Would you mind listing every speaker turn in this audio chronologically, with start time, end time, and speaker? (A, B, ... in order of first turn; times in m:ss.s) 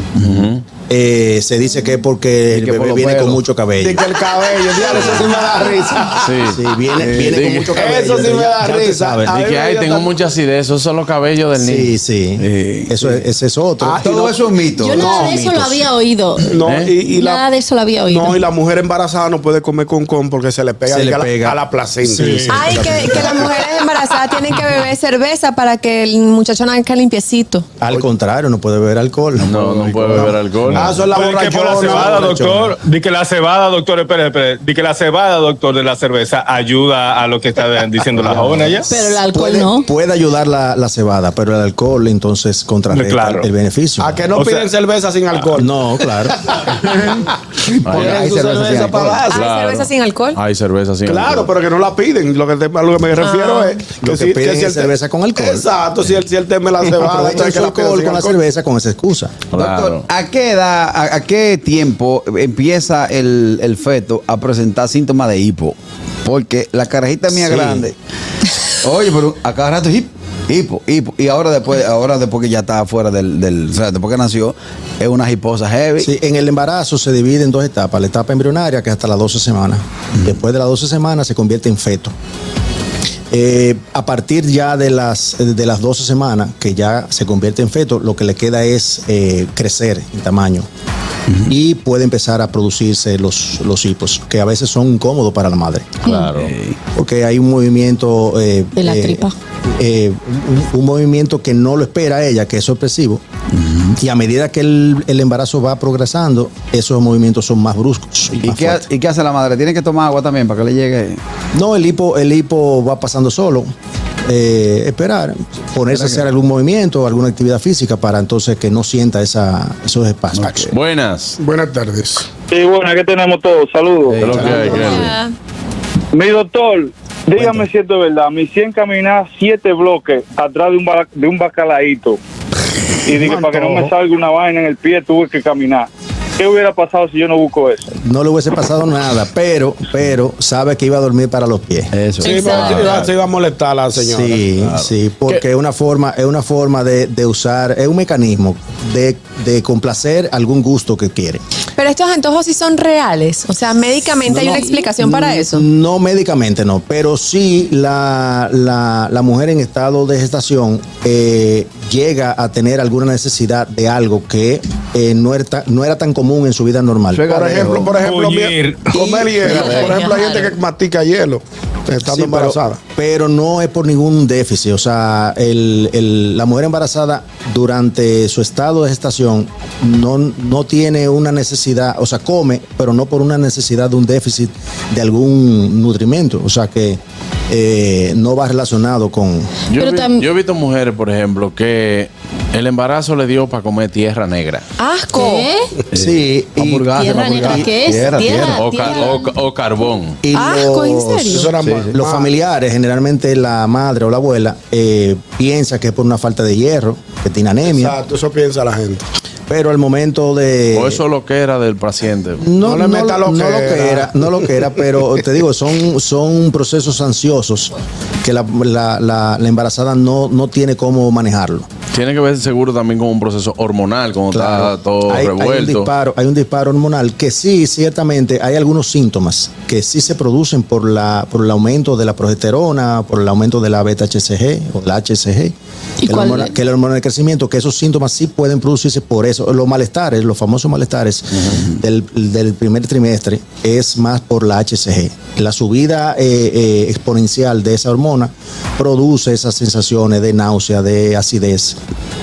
0:00.2-0:00.5 A
0:00.2-0:00.6 B
0:00.8-0:04.0 C
0:02.5-0:03.4 A
0:03.8-0:06.3 D
0:04.7-0:09.3 C
0:06.2-0:06.6 B
0:07.0-0:07.5 A
0:07.2-0:07.7 B
0:07.7-0:10.2 D
0:09.3-0:11.9 B
0:11.5-0:14.0 C
0:12.4-0:13.2 A
0:13.8-0:14.4 D
0:13.9-0:15.1 A
0:14.8-0:16.5 E
0:15.0-0:15.4 D
0:15.0-0:15.8 C
0:16.5-0:17.4 D
0:16.6-0:16.9 B
0:17.1-0:18.4 E
0:18.1-0:23.5 D
0:20.9-0:21.6 C
0:22.2-0:22.5 F
0:22.2-0:23.4 C
0:22.5-0:27.7 G
0:27.8-0:30.2 C
0:29.4-0:31.0 B
0:29.6-0:30.2 A
0:30.1-0:32.5 D
0:30.9-0:32.8 C
0:31.1-0:38.9 F
0:38.3-0:44.2 C
0:38.9-0:39.9 E
0:42.9-0:43.5 F
0:44.0-0:45.8 D
0:44.3-0:44.7 F
0:45.5-0:46.4 C
0:46.5-0:47.2 D
0:47.8-0:49.2 A
0:47.9-0:48.2 B
0:47.9-0:49.4 D
0:49.3-0:50.4 G
0:49.3-0:51.5 B
0:51.0-0:58.4 D
0:53.2-0:53.9 G
0:53.9-0:55.7 C
0:56.9-0:59.4 C
0:59.5-1:00.0 B
0:59.5-1:07.9 A
1:07.3-1:07.9 C
1:08.8-1:16.1 A
1:16.0-1:22.1 C
1:23.3-1:30.7 C
1:31.5-1:36.0 C
1:36.0-1:36.5 B
1:36.3-1:36.8 A
1:36.9-1:43.2 C
1:38.8-1:39.3 E
1:43.5-1:44.0 A
1:44.0-1:48.8 C
1:48.4-1:51.2 A
1:51.5-1:53.7 C
1:54.3-2:00.7 C
1:55.9-1:56.2 A
2:00.3-2:00.7 A
2:00.7-2:01.4 B
2:01.4-2:02.3 D
2:02.5-2:04.8 H
2:04.1-2:04.8 A
2:04.2-2:05.1 B
2:04.4-2:05.0 C
2:04.8-2:05.3 G
2:06.1-2:12.2 H
2:07.4-2:07.6 C
2:13.0-2:17.8 H
2:13.1-2:13.9 D
2:18.0-2:21.9 C
2:21.9-2:22.4 A
2:22.2-2:24.4 D
2:22.3-2:22.7 G
2:22.4-2:23.1 B
2:24.0-2:31.4 C
2:24.7-2:25.4 B
2:31.8-2:35.6 G
2:34.2-2:47.8 C
2:47.1-2:47.9 A
2:47.3-2:52.8 D
2:48.0-2:48.9 F
2:49.2-2:49.7 C
2:49.4-2:50.5 G
2:52.0-3:09.6 C
3:09.7-3:14.6 B
3:09.8-3:10.2 E
3:14.8-3:15.5 G
3:15.2-3:15.7 E
3:15.9-3:17.7 C
3:15.9-3:18.6 A
3:16.9-3:19.2 E
3:18.5-3:20.2 B
3:20.2-3:28.0 C
3:20.3-3:21.5 G
3:21.3-3:22.3 D
3:21.6-3:21.9 A
3:27.6-3:29.0 D
3:29.5-3:31.0 C
3:30.7-3:32.4 B
3:32.4-3:41.7 C
3:32.6-3:34.7 D
3:41.9-3:45.9 B
3:44.3-3:55.5 C
3:56.0-3:56.5 E
3:56.0-4:11.8 C
4:01.3-4:01.6 B